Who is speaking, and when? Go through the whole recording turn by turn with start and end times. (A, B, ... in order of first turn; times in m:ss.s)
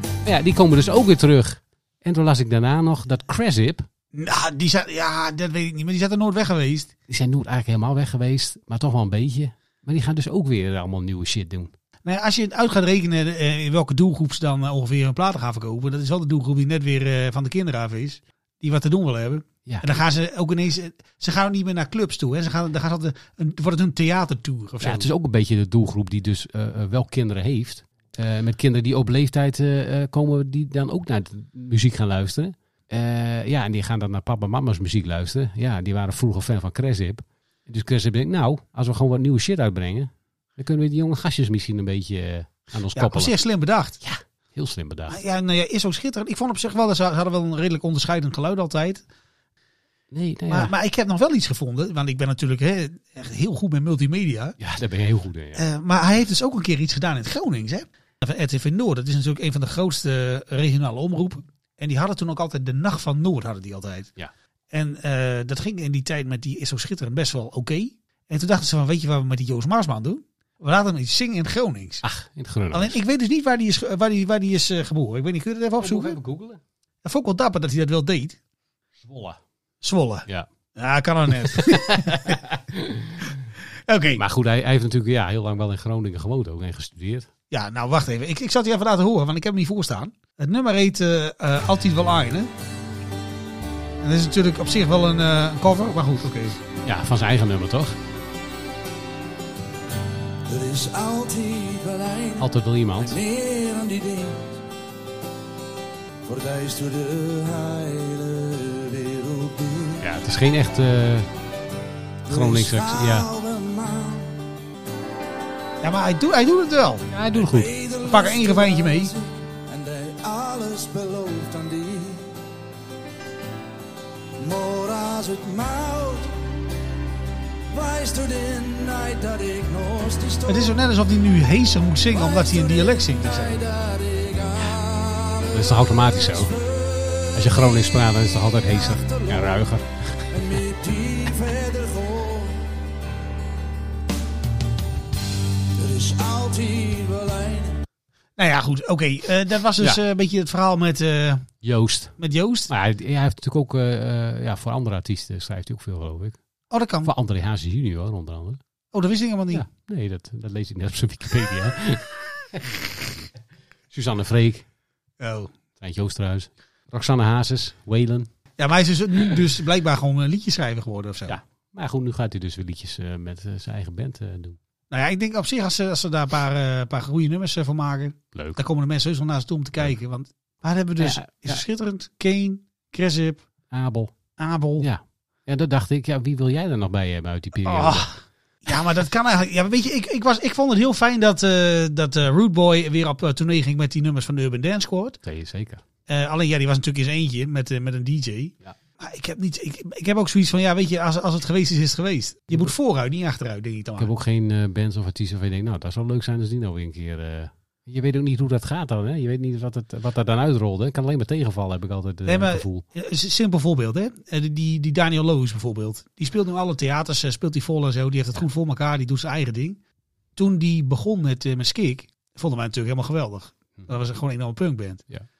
0:00.2-0:03.8 A
0:04.1-0:06.9 B
0:07.1-0:11.7 A
0:12.0-0:25.1 B
0:24.8-0:43.3 A
0:42.9-0:44.0 B
0:44.0-0:45.2 A
0:45.1-0:49.0 B
0:50.1-0:50.7 A
0:50.5-0:54.6 B
0:54.6-0:55.6 A
0:55.6-1:04.1 B
1:04.7-1:12.0 B
1:12.0-1:13.0 A
1:12.7-1:16.2 B
1:15.8-1:16.6 A
1:17.0-1:18.4 B
1:19.0-1:19.4 A
1:19.8-1:22.4 B
1:21.5-1:23.3 A
1:23.9-1:24.2 B
1:24.2-1:27.3 A
1:27.5-1:32.5 B
1:34.0-1:36.6 B
1:36.8-1:38.0 A
1:40.5-1:44.6 C
1:42.4-1:43.2 A
1:46.2-1:50.0 C
1:50.0-1:51.3 A
1:52.3-1:54.4 C
1:52.3-1:53.3 A
1:55.8-1:57.0 B
1:57.1-1:57.7 A
1:57.4-2:02.3 C
1:58.0-1:59.1 B
2:04.4-2:06.3 C
2:07.7-2:10.7 C
2:10.4-2:13.6 B
2:12.1-2:15.6 C
2:15.4-2:16.6 A
2:17.3-2:20.0 A
2:19.0-2:19.5 C
2:20.3-2:22.6 C
2:25.7-2:27.8 C
2:28.4-2:31.5 B
2:31.6-2:32.2 A
2:32.2-2:32.7 B
2:32.7-2:36.4 A
2:36.7-2:37.1 B
2:37.0-2:38.6 A
2:38.9-2:39.6 B
2:39.5-2:42.7 A
2:43.9-2:44.6 A
2:45.2-2:45.5 B
2:45.8-2:48.3 A
2:48.6-2:51.4 B
2:51.3-2:54.6 A
2:54.9-3:03.4 B
2:58.3-2:58.6 A
3:01.0-3:01.6 A
3:03.7-3:04.1 A
3:04.4-3:04.9 B
3:04.8-3:08.1 A
3:07.6-3:08.1 B
3:08.6-3:15.2 B
3:15.2-3:15.8 A
3:16.1-3:24.1 B
3:24.0-3:32.8 A
3:32.2-3:39.8 B
3:40.4-3:45.0 B